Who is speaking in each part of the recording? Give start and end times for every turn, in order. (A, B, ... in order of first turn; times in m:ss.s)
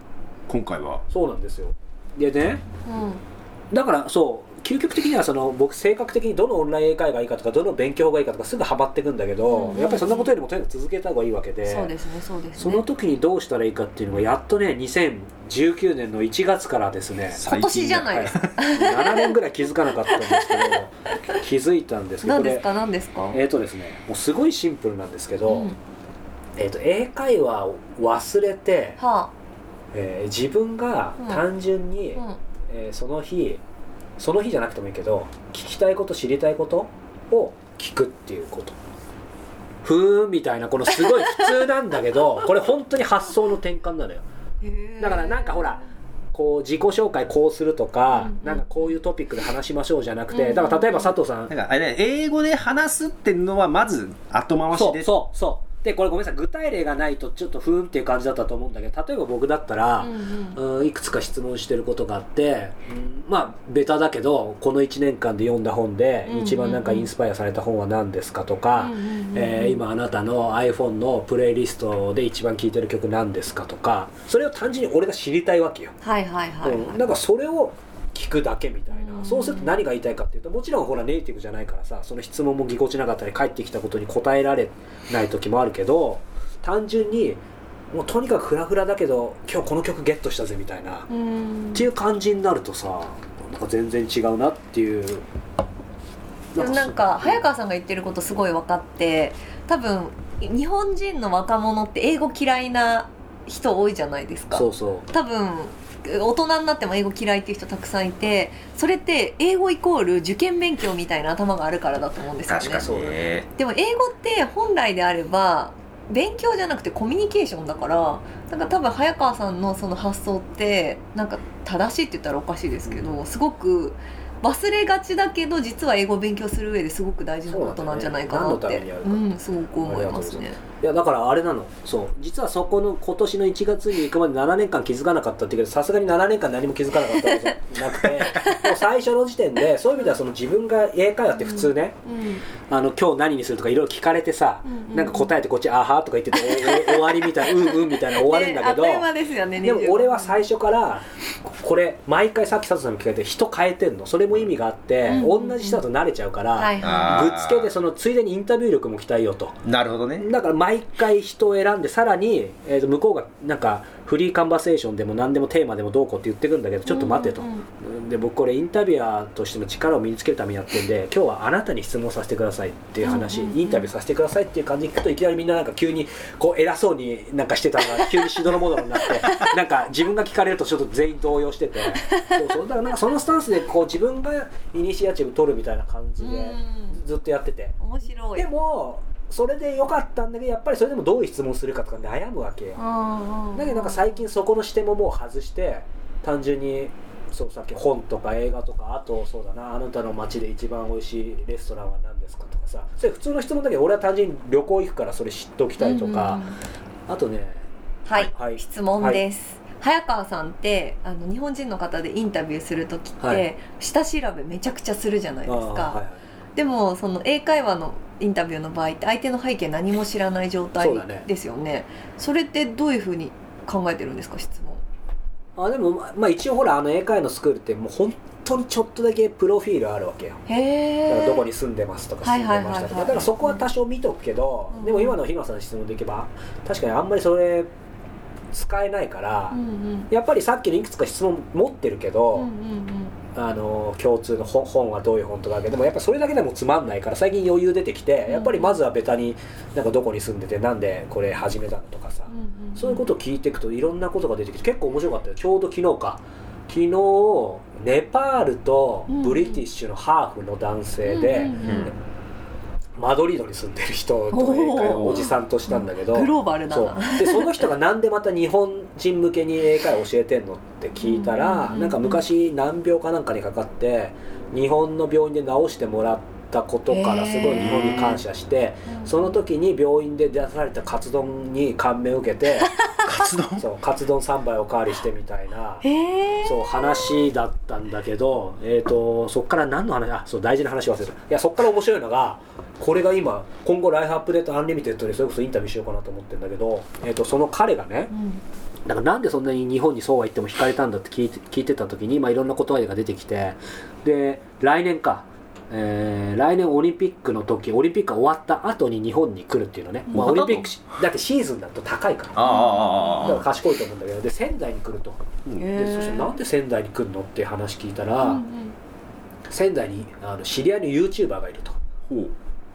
0:00.5-0:01.0 A
0:01.1-0:02.6 B
0:02.9-0:03.2 C
0:03.7-0:11.9 B
0:09.5-0:10.3 C
0:11.6-0:12.8 C
0:12.6-0:17.4 B
0:17.4-0:18.7 A
0:17.4-0:19.4 C
0:18.0-0:22.6 B
0:20.1-0:20.8 C
0:22.2-0:23.4 C
0:23.3-0:25.7 B
0:25.5-0:25.8 C
0:26.6-0:29.0 B
0:29.0-0:29.3 C
0:29.9-0:33.6 B
0:34.2-0:38.8 B
0:39.8-0:44.2 B
0:41.2-0:41.5 C
0:44.6-0:45.9 C
0:45.0-0:45.8 B
0:46.3-0:51.5 B
0:48.1-0:49.0 C
0:50.3-0:51.2 C
0:51.5-0:55.1 A
0:54.7-1:15.9 B
1:00.0-1:00.6 C
1:06.3-1:07.1 C
1:08.8-1:09.8 C
1:16.0-1:17.0 C
1:16.6-1:27.4 B
1:18.9-1:19.8 C
1:27.9-1:31.1 B
1:31.1-1:31.9 C
1:31.7-1:35.2 B
1:36.5-1:37.4 B
1:36.6-1:52.9 C
1:44.5-1:45.1 B
1:52.5-1:53.5 A
1:52.7-1:53.3 B
1:53.6-2:10.6 C
2:02.9-2:03.1 B
2:07.5-2:09.3 B
2:09.8-2:22.0 B
2:17.2-2:17.5 C
2:18.4-2:18.7 C
2:21.4-2:22.4 C
2:22.6-2:29.1 B
2:24.7-2:25.3 C
2:26.4-2:30.5 C
2:29.6-2:39.6 B
2:35.1-2:35.8 C
2:36.6-2:37.3 C
2:36.8-2:37.7 A
2:39.6-2:40.2 A
2:40.2-3:07.8 B
2:46.9-2:47.6 C
2:53.0-2:53.9 C
3:02.1-3:02.4 C
3:06.2-3:07.0 C
3:07.8-3:08.5 C
3:08.4-3:12.8 B
3:12.8-3:14.2 C
3:13.5-3:26.4 B
3:25.8-3:26.6 C
3:27.1-3:27.7 B
3:28.1-3:36.0 C
3:28.3-3:29.2 B
3:33.2-3:33.5 B
3:35.5-3:36.2 B
3:36.6-3:44.8 C
3:40.8-3:41.3 B
3:45.6-3:50.4 B
3:50.5-3:51.5 C
3:51.1-3:57.7 B
3:52.2-3:53.6 C
3:54.7-3:55.2 C
3:58.5-3:59.6 B
3:59.5-4:00.1 C
4:00.1-4:02.5 B
4:02.4-4:03.2 C
4:03.3-4:21.9 B
4:08.3-4:08.8 C
4:12.3-4:13.0 C
4:19.1-4:19.6 C
4:21.0-4:21.9 C
4:21.6-4:21.9 A
4:23.0-4:42.7 B
4:24.3-4:27.7 C
4:31.0-4:32.2 C
4:36.9-4:38.2 C
4:37.5-4:38.2 A
4:38.9-4:39.3 C
4:43.0-4:43.6 A
4:43.6-4:45.9 B
4:45.8-4:47.2 C
4:46.4-4:58.1 B
4:58.1-4:58.4 C
4:58.9-5:12.5 B
5:10.1-5:10.7 A
5:12.4-5:13.4 A
5:12.4-5:13.4 C
5:13.2-5:18.4 B
5:15.6-5:16.4 C
5:18.2-5:18.8 C
5:19.5-5:21.8 B
5:22.1-5:22.3 A